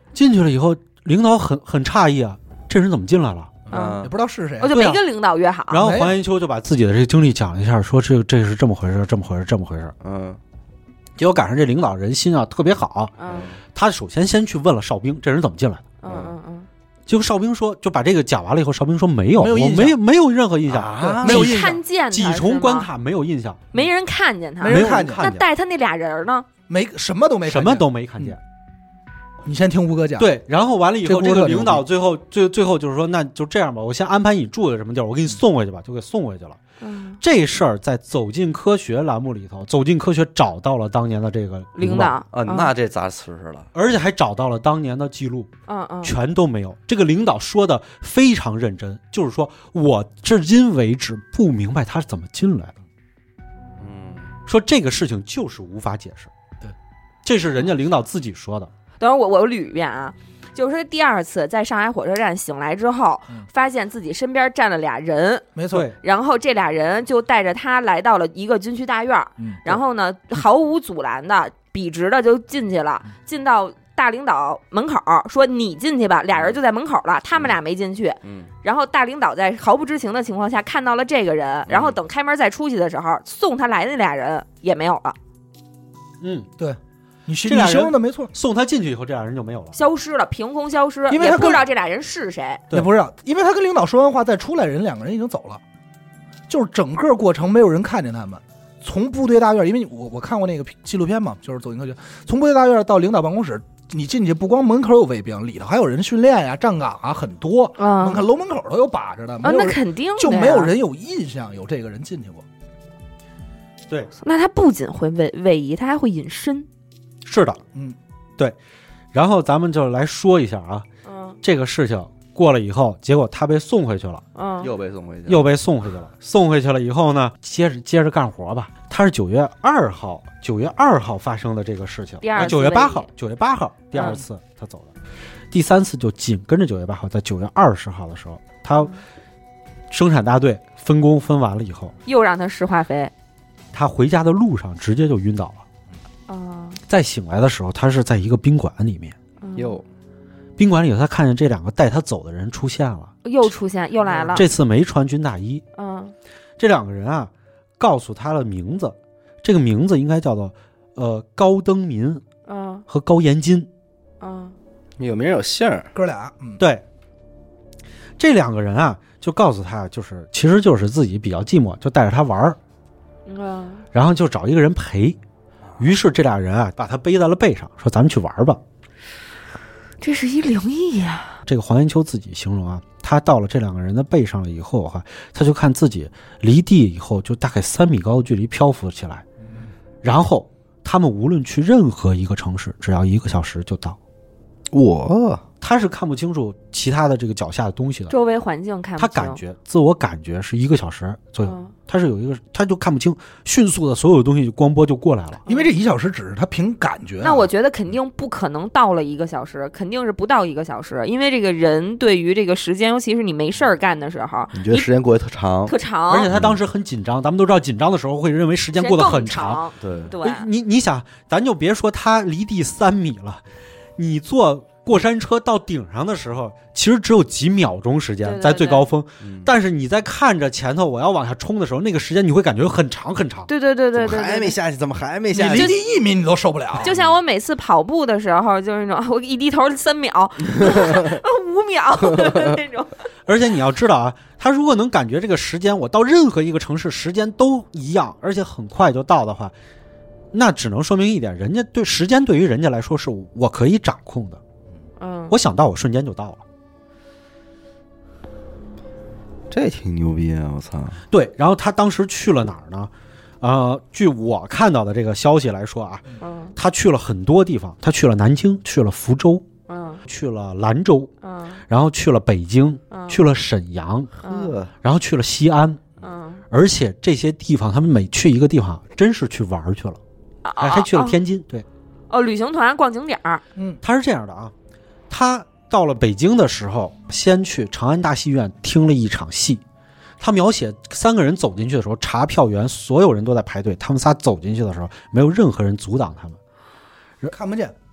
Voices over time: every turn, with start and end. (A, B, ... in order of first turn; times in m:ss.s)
0:00.1-0:03.6 A
0:03.7-0:04.2 B
0:03.7-0:04.1 C
0:04.0-0:04.8 D
0:04.6-0:05.8 C
0:04.7-0:05.0 A
0:05.7-0:09.9 A
0:05.8-0:06.1 D
0:10.0-0:10.4 B
0:11.2-0:13.1 A
0:13.2-0:13.5 C
0:13.2-0:13.6 B
0:13.7-0:15.8 A
0:16.0-0:16.7 C
0:16.0-0:16.4 B
0:17.1-0:23.6 A
0:19.4-0:20.0 D
0:20.7-0:21.4 B
0:21.0-0:21.8 D
0:21.2-0:22.9 C
0:23.7-0:26.5 C
0:24.6-0:25.2 D
0:24.6-0:25.5 A
0:26.7-0:28.4 D
0:27.5-0:28.4 A
0:29.4-0:30.3 D
0:30.2-0:36.6 A
0:31.0-0:31.8 D
0:36.8-0:37.2 C
0:37.2-0:42.2 A
0:41.8-0:42.7 C
0:42.3-0:43.7 B
0:43.7-0:45.5 A
0:45.7-0:46.1 C
0:46.0-0:52.8 A
0:53.8-0:54.3 B
0:54.5-0:56.3 A
0:57.2-0:58.7 A
0:59.0-1:25.2 C
1:05.6-1:05.9 D
1:05.7-1:06.0 A
1:18.2-1:18.5 B
1:21.7-1:22.0 B
1:26.2-1:26.5 A
1:26.6-1:28.3 D
1:27.4-1:29.8 A
1:29.7-1:32.6 C
1:31.1-1:31.6 D
1:32.7-1:35.6 D
1:36.5-1:52.4 D
1:47.8-1:48.2 C
1:49.4-1:50.7 C
1:54.2-1:56.7 C
1:57.2-1:57.6 A
1:59.1-2:00.9 A
2:01.0-2:01.4 C
2:01.4-2:04.2 A
2:04.4-2:04.7 C
2:04.6-2:05.5 B
2:05.3-2:14.9 A
2:12.2-2:13.1 C
2:13.9-2:14.2 C
2:15.5-2:18.9 A
2:19.9-2:21.9 A
2:22.1-2:23.1 C
2:23.7-2:25.6 A
2:26.3-2:26.8 C
2:26.9-2:29.2 A
2:29.4-2:29.8 C
2:29.6-2:29.8 B
2:30.6-2:33.2 A
2:33.2-2:34.5 C
2:34.1-2:34.4 D
2:34.3-2:35.6 A
2:35.8-2:36.1 C
2:36.6-2:42.2 A
2:42.5-2:42.8 C
2:42.9-2:43.7 A
2:44.2-2:44.6 C
2:45.0-2:45.9 B
2:46.0-2:46.6 D
2:46.6-2:46.8 A
2:48.2-2:52.6 A
2:53.3-2:53.8 C
2:53.9-2:55.2 A
2:55.8-2:58.6 A
3:00.0-3:01.4 C
3:01.5-3:09.2 A
3:10.0-3:14.0 A
3:14.7-3:15.4 B
3:15.6-3:18.1 A
3:18.1-3:19.4 C
3:19.0-3:25.4 A
3:21.4-3:21.7 C
3:25.5-3:25.7 C
3:25.5-3:27.5 D
3:27.2-3:34.9 C
3:34.5-3:35.8 B
3:35.7-3:36.3 C
3:36.1-3:39.6 A
3:36.3-3:36.6 B
3:38.8-3:40.5 C
3:39.8-3:40.1 B
3:40.2-3:43.4 A
3:44.0-3:53.5 A
3:48.2-3:48.9 C
3:49.2-3:49.5 B
3:53.5-3:54.6 C
3:54.0-3:55.8 B
3:55.3-3:56.9 D
3:55.4-3:55.8 C
3:56.8-4:03.0 C
4:00.6-4:01.0 B
4:02.1-4:02.6 B
4:03.3-4:09.5 A
4:10.3-4:14.4 A
4:15.0-4:15.3 C
4:15.3-4:16.4 A
4:19.5-4:21.0 B
4:21.1-4:26.0 A
4:26.2-4:26.5 C
4:26.6-4:29.4 A
4:29.7-4:30.0 C
4:30.0-4:31.1 A
4:31.2-4:31.6 C
4:31.7-4:34.1 A
4:32.9-4:33.2 C
4:34.2-4:34.7 B
4:34.2-4:34.6 C
4:34.8-4:35.8 A
4:36.0-4:36.4 C
4:36.5-4:40.0 A
4:40.4-4:41.2 C
4:40.6-4:41.7 A
4:42.1-4:43.4 C
4:43.8-4:44.5 A
4:45.1-4:49.6 A
4:50.2-4:56.4 A
4:57.3-4:57.7 D